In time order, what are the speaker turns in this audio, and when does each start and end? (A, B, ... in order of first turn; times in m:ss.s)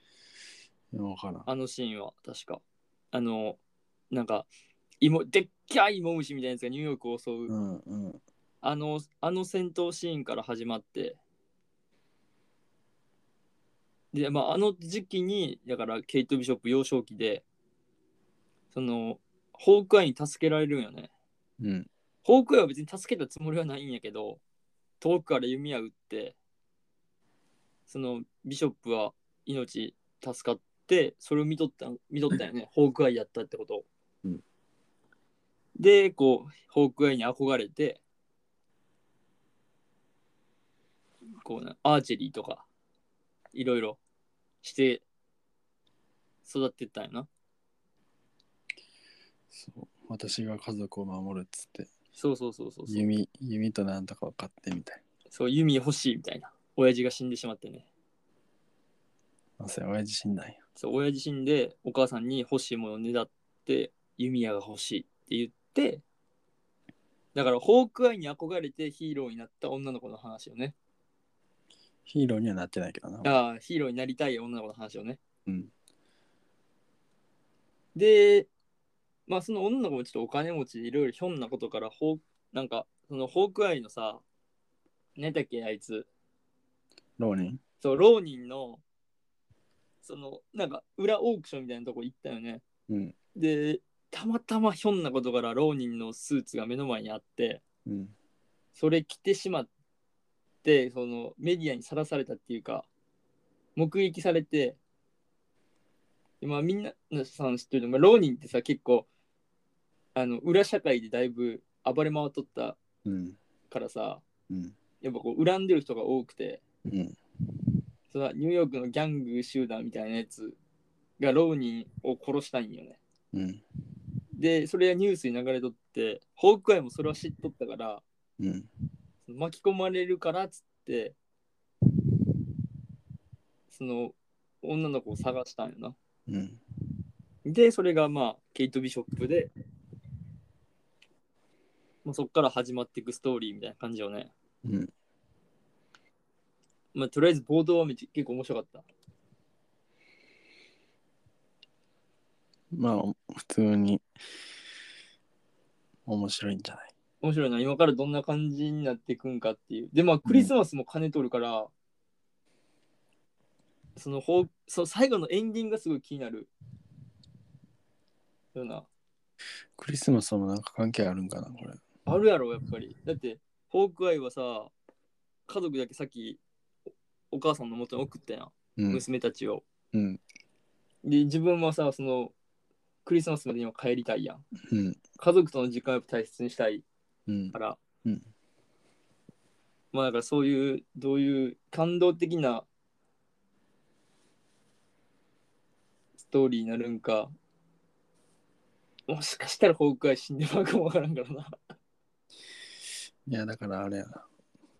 0:00.9-0:01.5 A
0:01.4-0:03.6 B
0:04.1-0:04.5 B
0:05.0-0:07.5 B
0:07.5-0:08.2 A
0:08.6-0:11.2 B
0:14.1-0:17.4 B
0:18.7-0:21.1 B
0:21.6-0:21.9 A
0:22.2-0:24.4 B
0:25.0-0:26.4 B
0:27.9-0:33.9 B
0:35.8-0:38.0 B
0:41.4-0:42.6 B
0:43.5-0:44.0 B
0:44.6-0:45.0 B
0:46.4-0:47.3 B
0:49.5-0:51.9 A
0:52.2-0:53.2 B
0:52.9-0:55.0 A
0:55.3-0:57.9 B
0:59.6-1:00.6 A
1:00.8-1:06.0 B
1:07.3-1:10.7 B
1:12.0-1:13.3 A
1:13.2-1:15.2 B
1:15.4-1:15.7 A
1:17.9-1:18.5 B
1:19.3-1:24.2 B
1:25.2-1:26.1 B
1:27.2-1:27.6 A
1:27.8-1:28.8 B
1:30.0-1:32.6 B
1:32.9-1:33.1 A
1:33.3-1:37.6 B
1:37.8-1:38.1 A
1:38.7-1:39.7 B
1:40.6-1:42.9 B
1:43.8-1:44.8 B
1:46.4-1:49.1 B
1:50.1-1:52.8 B
1:53.0-1:53.4 A
1:53.7-1:54.2 B
1:55.0-1:56.6 B
1:56.8-1:57.2 A
1:58.1-2:00.6 B
2:01.2-2:03.0 B
2:03.3-2:03.6 A
2:04.3-2:08.0 B
2:08.4-2:08.7 A
2:09.2-2:11.2 B
2:13.7-2:16.0 B
2:16.3-2:16.6 A
2:17.4-2:19.5 B
2:22.0-2:24.3 B
2:24.6-2:24.9 A
2:26.9-2:28.8 B
2:32.7-2:34.0 A
2:36.1-2:36.9 A
2:37.2-2:41.7 B
2:40.2-2:40.5 A
2:44.0-2:46.5 B
2:48.5-2:48.9 B
2:49.8-2:51.8 A
2:52.0-2:54.7 B
2:55.5-2:56.4 B
2:57.3-2:59.6 B
2:58.8-2:59.0 A
2:59.9-3:00.2 A
3:01.0-3:02.3 B
3:03.0-3:04.4 B
3:04.7-3:05.0 A
3:05.2-3:06.8 B
3:07.3-3:08.3 A
3:07.5-3:07.8 B
3:09.9-3:12.7 B
3:16.2-3:17.3 B
3:19.1-3:21.5 B
3:23.3-3:24.2 A